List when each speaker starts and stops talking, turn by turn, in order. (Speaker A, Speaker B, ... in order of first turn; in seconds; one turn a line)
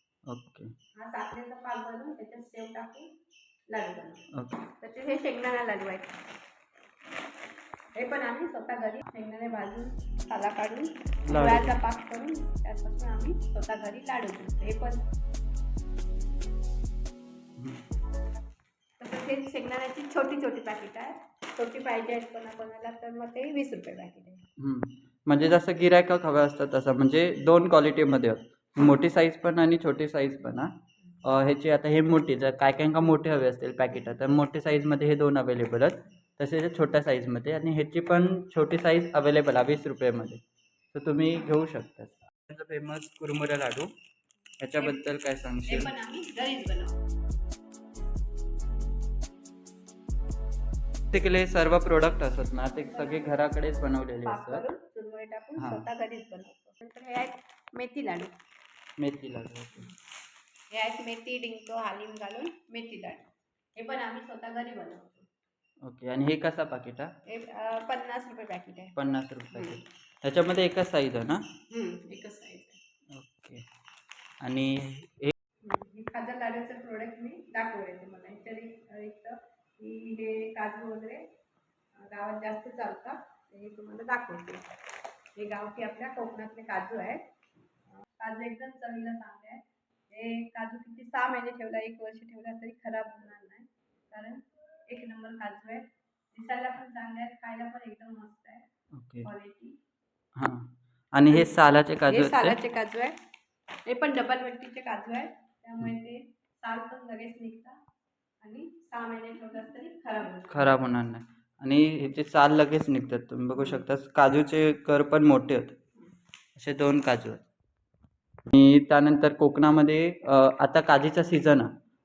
Speaker A: 0.3-0.7
Speaker B: 1.0-3.1
Speaker B: 3.7-6.2
Speaker B: 8.0-15.0
Speaker A: 11.2-11.8
Speaker B: 19.0-24.4
Speaker A: 24.6-40.4
Speaker A: 40.9-43.9
Speaker A: 44.6-45.9
Speaker B: 45.6-47.0
Speaker A: 51.1-54.6
Speaker B: 52.8-53.4
Speaker B: 54.2-58.3
Speaker A: 55.6-55.8
Speaker A: 59.0-59.9
Speaker B: 60.7-65.3
Speaker A: 65.8-67.1
Speaker B: 67.3-69.0
Speaker A: 69.0-71.4
Speaker B: 69.5-69.8
Speaker B: 71.7-72.8
Speaker A: 73.1-73.6
Speaker A: 74.4-75.3
Speaker B: 75.6-81.2
Speaker B: 82.0-84.6
Speaker B: 85.4-87.2
Speaker B: 88.0-98.6
Speaker A: 98.9-99.3
Speaker B: 99.2-99.8
Speaker A: 100.4-102.5
Speaker B: 102.1-103.2
Speaker B: 103.8-107.8
Speaker B: 108.4-110.8
Speaker A: 110.5-115.8
Speaker A: 116.5-117.4
Speaker A: 118.5-121.7